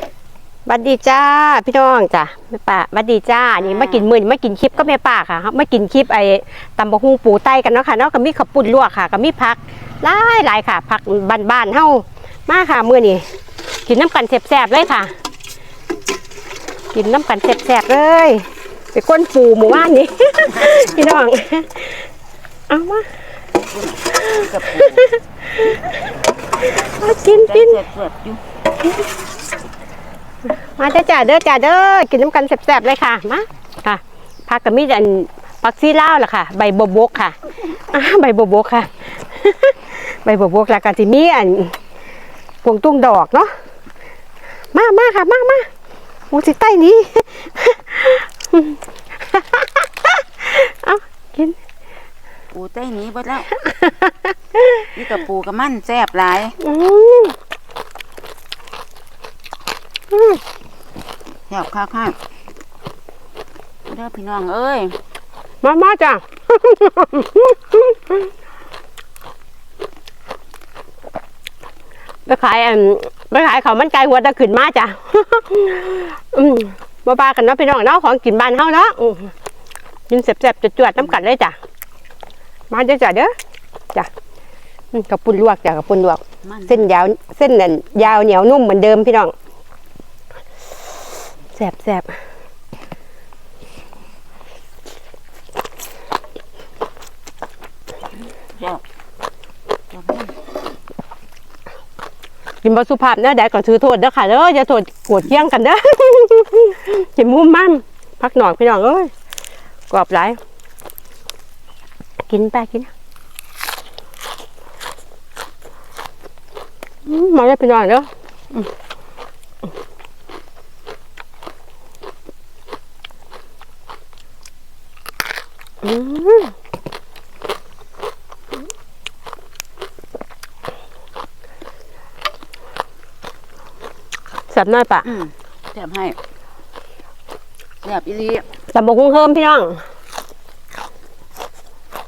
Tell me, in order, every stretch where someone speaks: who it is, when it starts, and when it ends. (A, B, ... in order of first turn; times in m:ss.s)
0:00.6-0:13.2 A
0:03.6-0:04.1 B
0:13.8-0:15.1 A
0:16.9-0:22.1 A
0:22.7-0:23.1 A
0:23.7-0:25.2 B
0:24.2-0:25.8 A
0:26.8-0:27.8 A
0:27.3-0:28.4 B
0:30.5-0:41.8 A
0:42.6-0:43.5 A
0:44.7-0:45.7 A
0:46.3-0:51.6 A
0:52.5-0:53.5 B
0:53.6-0:54.1 A
0:54.9-0:56.6 B
0:56.6-0:57.4 A
1:00.1-1:00.4 A
1:01.5-1:02.2 B
1:03.9-1:04.9 B
1:05.6-1:08.2 A
1:12.2-1:19.3 A
1:20.1-1:21.6 A
1:22.7-1:23.3 A
1:24.9-1:29.3 A
1:26.4-1:26.9 B
1:31.6-1:32.1 A
1:38.5-1:38.8 B
1:39.9-1:40.3 B
1:42.6-1:49.1 A
1:49.9-1:50.4 A
1:52.3-1:52.9 A
1:57.0-1:58.7 A
2:05.8-2:06.5 A
2:14.5-2:15.1 A
2:15.0-2:16.2 B
2:17.8-2:18.4 B
2:18.7-2:19.8 A